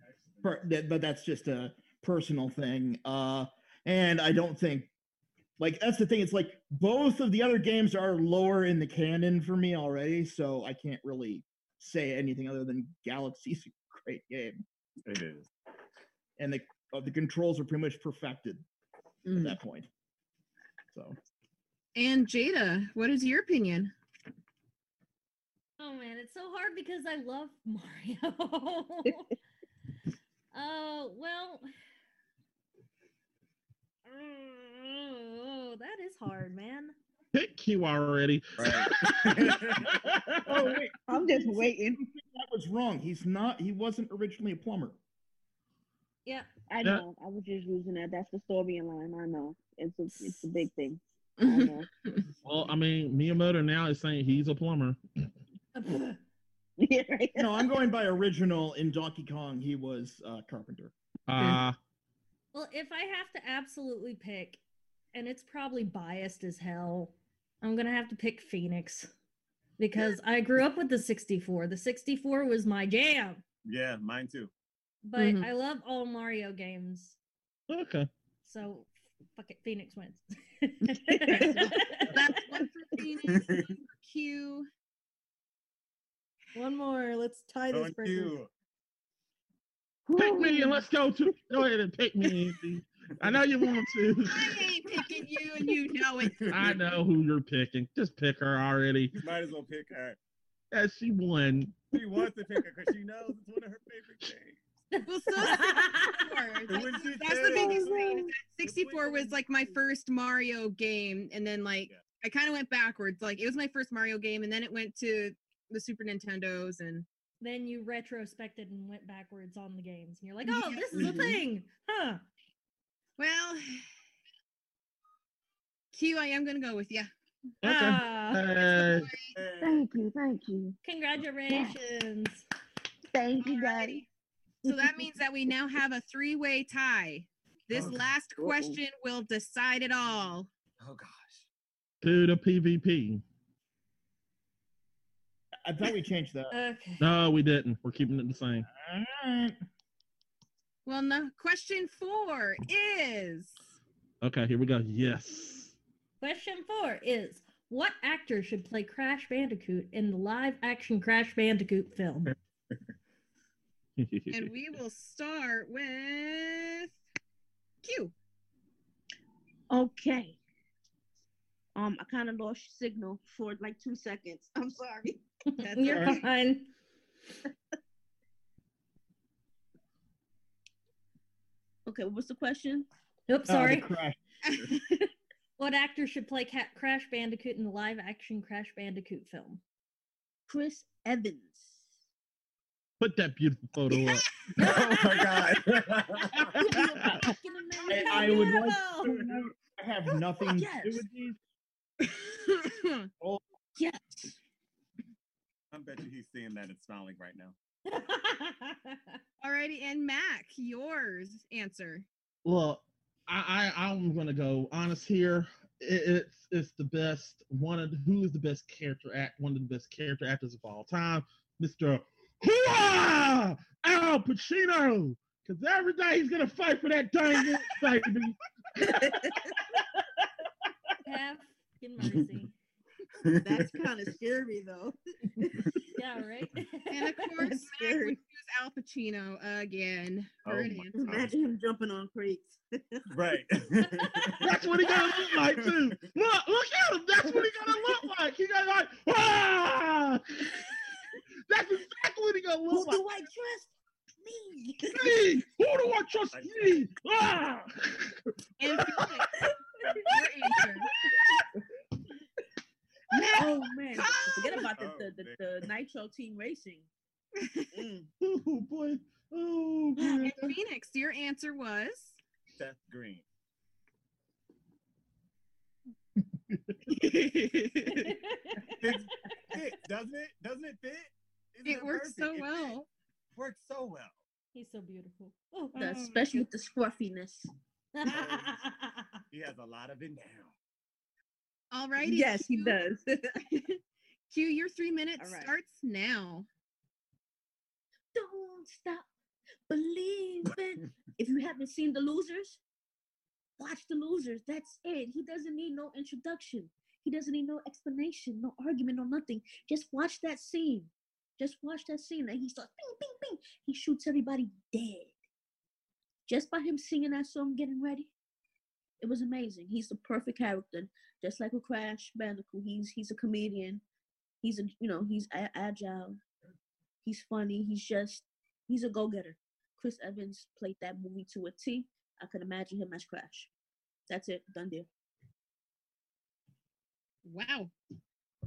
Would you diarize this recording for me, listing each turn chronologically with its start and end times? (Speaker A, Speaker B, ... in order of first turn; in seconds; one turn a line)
Speaker A: 0.4-4.9
Speaker A: 5.6-14.6
Speaker B: 15.1-15.5
Speaker A: 16.4-18.6
Speaker C: 19.3-19.6
Speaker A: 19.3-19.9
Speaker A: 20.9-21.2
Speaker C: 21.9-23.9
Speaker D: 25.8-29.3
Speaker D: 30.5-31.7
Speaker D: 34.1-37.0
Speaker E: 37.3-40.8
Speaker B: 38.6-39.9
Speaker A: 40.5-45.0
Speaker F: 41.1-42.0
Speaker F: 46.7-51.9
Speaker C: 51.5-51.7
Speaker E: 52.4-55.0
Speaker D: 55.8-56.1
Speaker F: 56.8-57.7
Speaker A: 57.4-60.9
Speaker E: 61.3-61.8
Speaker D: 62.5-64.6
Speaker D: 65.1-69.1
Speaker D: 69.8-73.4
Speaker B: 73.7-74.5
Speaker D: 75.0-77.2
Speaker C: 75.2-75.5
Speaker E: 77.7-78.1
Speaker D: 78.5-82.2
Speaker F: 81.1-81.8
Speaker C: 82.0-84.7
Speaker B: 83.3-83.8
Speaker D: 86.5-88.3
Speaker B: 87.7-88.5
Speaker F: 90.1-90.9
Speaker E: 90.2-94.8
Speaker B: 93.2-93.4
Speaker C: 94.3-96.7
Speaker B: 96.2-96.9
Speaker E: 96.5-99.1
Speaker B: 99.1-100.2
Speaker E: 100.7-101.9
Speaker B: 101.9-104.6
Speaker D: 104.9-106.3
Speaker C: 105.1-117.1
Speaker B: 106.7-109.8
Speaker F: 107.4-108.3
Speaker D: 117.4-122.2
Speaker C: 120.5-121.4
Speaker C: 123.2-123.9
Speaker C: 125.9-127.1
Speaker E: 127.6-129.1
Speaker D: 127.6-128.6
Speaker C: 128.6-129.4
Speaker B: 129.3-129.9
Speaker F: 129.6-130.8
Speaker D: 130.8-132.4
Speaker F: 131.5-131.8
Speaker F: 133.1-134.0
Speaker C: 133.4-134.1
Speaker F: 134.6-135.1
Speaker C: 134.7-140.5
Speaker B: 137.7-138.0
Speaker F: 138.4-138.8
Speaker B: 140.8-141.4
Speaker E: 142.0-143.2
Speaker A: 145.7-146.6
Speaker D: 146.5-147.1
Speaker E: 147.0-148.7
Speaker A: 148.7-149.6
Speaker C: 150.9-153.7
Speaker E: 154.2-155.7
Speaker D: 156.2-162.3
Speaker E: 164.0-164.5
Speaker C: 164.3-166.9
Speaker C: 167.8-168.1
Speaker F: 169.7-170.4
Speaker F: 171.7-175.2
Speaker D: 175.6-176.7
Speaker C: 175.6-176.2
Speaker E: 175.9-176.2
Speaker F: 181.9-182.9
Speaker D: 183.3-183.9
Speaker A: 183.5-184.2
Speaker C: 184.4-184.8
Speaker D: 185.6-189.6
Speaker F: 190.5-191.9
Speaker E: 193.0-194.4
Speaker B: 194.6-196.7
Speaker D: 194.6-195.3
Speaker F: 195.0-195.3
Speaker E: 196.4-197.2
Speaker F: 196.6-199.1
Speaker A: 197.9-201.4
Speaker F: 200.4-201.1
Speaker C: 202.1-203.1
Speaker F: 203.8-204.4
Speaker B: 205.7-207.6
Speaker D: 207.9-209.2
Speaker C: 209.4-212.1
Speaker E: 212.4-230.9
Speaker F: 227.3-227.7
Speaker F: 228.8-229.6
Speaker D: 231.1-232.5
Speaker B: 233.2-233.8
Speaker F: 233.4-235.8
Speaker D: 235.9-237.2
Speaker C: 236.9-240.9
Speaker F: 237.4-238.2
Speaker B: 240.4-241.4
Speaker F: 240.9-243.0
Speaker B: 243.1-244.6
Speaker F: 244.2-245.5
Speaker E: 244.4-250.7
Speaker F: 247.2-248.1
Speaker E: 251.5-253.0
Speaker F: 252.7-253.7
Speaker F: 254.2-255.4
Speaker E: 254.8-259.3
Speaker B: 256.3-256.9
Speaker C: 258.6-259.2
Speaker F: 258.7-260.9
Speaker C: 260.1-260.9
Speaker E: 260.6-261.5
Speaker C: 263.1-264.7
Speaker F: 263.3-266.9
Speaker B: 264.7-265.7
Speaker C: 267.4-267.7
Speaker F: 267.7-268.0
Speaker E: 268.2-270.5
Speaker F: 270.0-270.3
Speaker C: 270.2-272.2
Speaker B: 272.6-273.2
Speaker C: 276.9-278.1
Speaker D: 277.9-278.8
Speaker B: 278.8-282.8
Speaker C: 281.7-282.9
Speaker B: 283.4-284.2
Speaker D: 284.5-285.8
Speaker F: 285.8-287.5
Speaker C: 285.8-286.4
Speaker D: 287.9-289.2
Speaker B: 288.1-288.6
Speaker B: 289.3-290.5
Speaker C: 291.7-292.8
Speaker F: 292.0-293.8
Speaker C: 294.3-296.5
Speaker F: 295.2-295.5
Speaker F: 298.1-299.1
Speaker F: 299.7-302.6
Speaker F: 303.6-315.1
Speaker F: 316.3-318.1
Speaker F: 319.0-323.8
Speaker F: 324.4-326.2
Speaker F: 327.0-333.5
Speaker F: 334.1-334.9
Speaker C: 337.2-337.7